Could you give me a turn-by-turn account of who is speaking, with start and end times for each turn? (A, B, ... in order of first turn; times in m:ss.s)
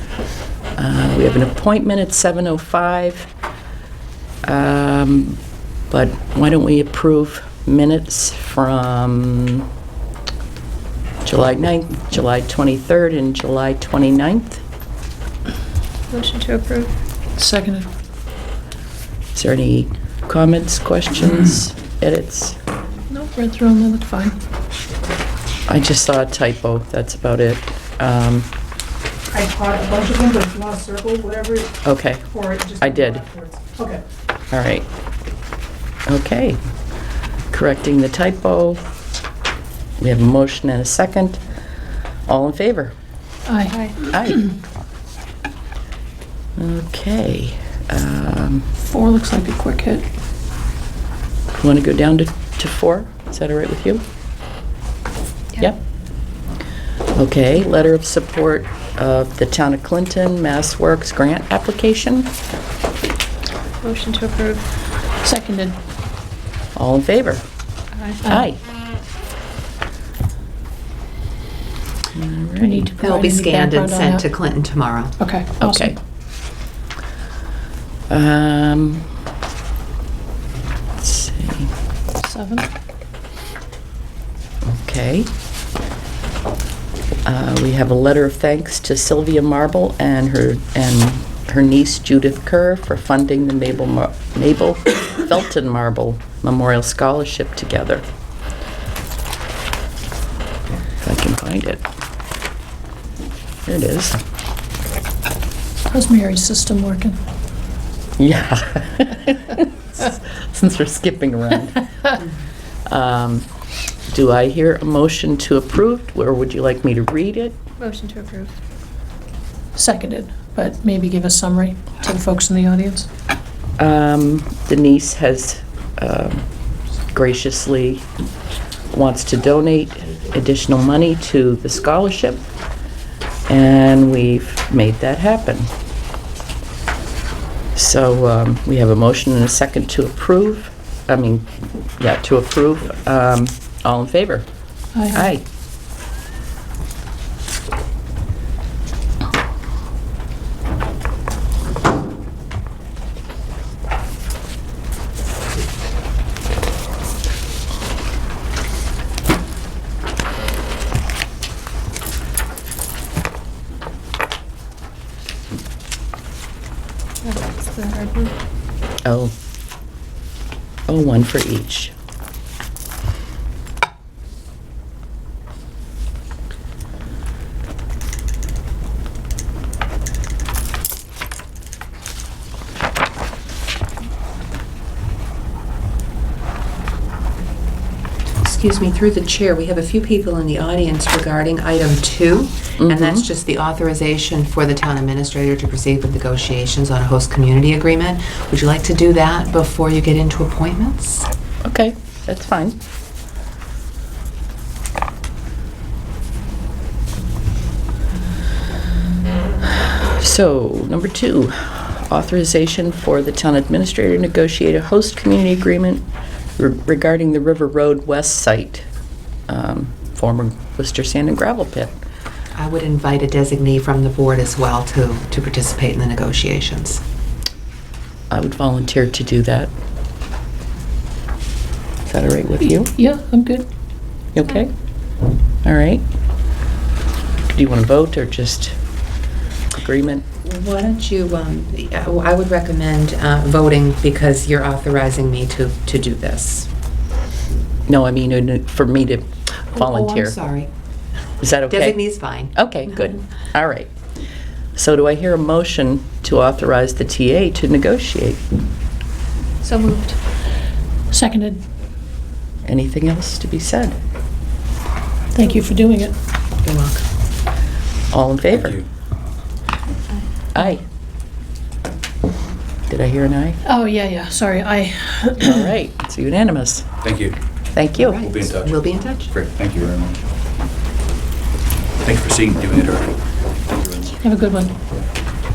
0:00.8-0:03.3 A
0:04.4-0:05.4 A
0:05.9-0:09.7 A
0:11.2-0:14.6 A
0:16.1-0:16.9 B
0:17.4-0:17.9 C
0:19.3-0:22.6 A
0:23.1-0:24.4 C
0:25.7-0:28.5 A
0:29.3-0:31.6 D
0:29.6-0:31.6 C
0:31.8-0:33.2 A
0:32.5-0:34.0 C
0:34.5-0:34.9 A
0:36.1-0:36.6 A
0:37.5-0:38.8 A
0:40.0-0:41.4 A
0:42.3-0:42.9 A
0:43.5-0:43.8 C
0:43.7-0:44.0 B
0:44.1-0:44.5 A
0:46.6-0:48.7 A
0:48.8-0:50.0 C
0:51.6-0:54.0 A
0:57.1-1:02.3 A
1:03.8-1:04.6 B
1:05.2-1:05.8 C
1:06.8-1:07.4 A
1:07.9-1:08.2 B
1:08.2-1:08.5 C
1:08.2-1:08.6 A
1:12.1-1:12.9 A
1:12.6-1:14.2 C
1:13.0-1:15.2 E
1:15.2-1:16.0 C
1:15.6-1:16.0 A
1:18.1-1:19.1 A
1:21.0-1:21.7 A
1:22.2-1:22.7 C
1:24.7-1:25.3 A
1:27.2-1:38.0 A
1:41.0-1:41.8 A
1:43.6-1:44.2 A
1:45.9-1:47.2 C
1:48.2-1:52.2 A
1:52.9-1:53.5 A
1:54.1-1:57.6 A
1:57.8-1:58.5 B
1:59.7-2:03.1 C
2:03.8-2:06.4 A
2:07.1-2:08.0 A
2:08.9-2:12.4 A
2:13.5-2:15.7 A
2:17.7-2:24.4 A
2:24.9-2:25.2 C
2:25.1-2:25.4 A
2:47.2-2:48.3 B
2:49.0-2:49.3 A
2:50.9-2:51.9 A
3:08.4-3:21.3 E
3:12.8-3:13.2 A
3:21.6-3:22.8 A
3:29.7-3:36.0 A
3:36.6-3:38.9 A
3:39.5-3:42.0 A
3:42.5-3:47.0 E
3:48.3-3:49.7 A
3:52.1-3:52.9 A
3:52.8-3:53.6 C
3:54.3-3:54.7 A
3:55.6-3:56.0 A
3:57.5-3:58.8 A
3:59.8-4:00.2 A
4:00.4-4:06.7 E
4:07.9-4:10.4 A
4:09.7-4:10.7 E
4:11.4-4:13.9 A
4:11.7-4:12.5 E
4:14.8-4:18.4 A
4:19.6-4:20.2 B
4:21.1-4:21.6 C
4:22.6-4:24.0 A
4:25.3-4:26.1 C
4:26.6-4:27.0 E
4:28.1-4:28.8 A
4:28.5-4:28.8 F
4:30.5-4:30.8 A
4:32.9-4:33.6 A
4:33.6-4:35.6 C
4:35.4-4:36.9 A
4:37.0-4:37.4 F
4:37.7-4:38.2 A
4:37.9-4:39.3 E
4:38.2-4:40.2 F
4:42.0-4:43.2 F
4:43.7-4:44.4 F
4:44.2-4:44.8 C